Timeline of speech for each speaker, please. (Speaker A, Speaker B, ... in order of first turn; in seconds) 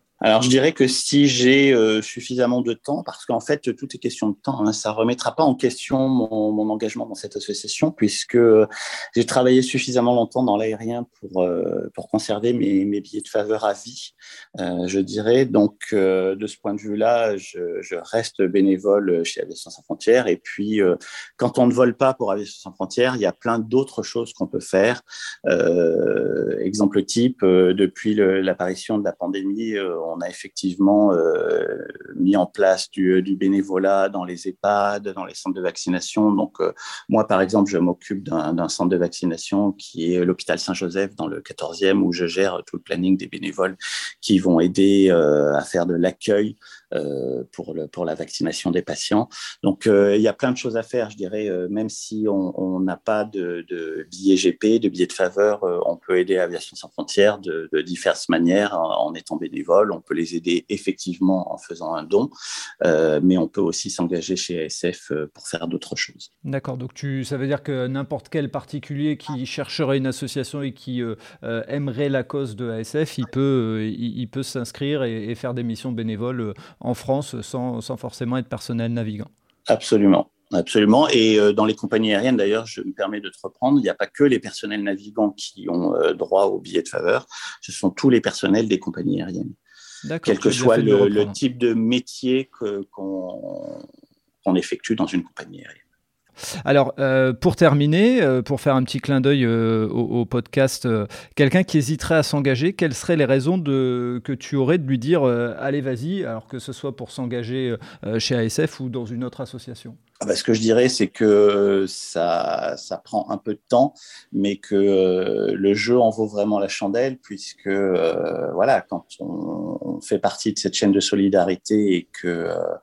Speaker A: 0.2-62.3, 62.8-66.3, 79.7-89.5, 90.2-93.9, 94.4-95.8, 110.2-122.7
Speaker B: 66.5-79.3, 90.0-91.4, 96.7-110.0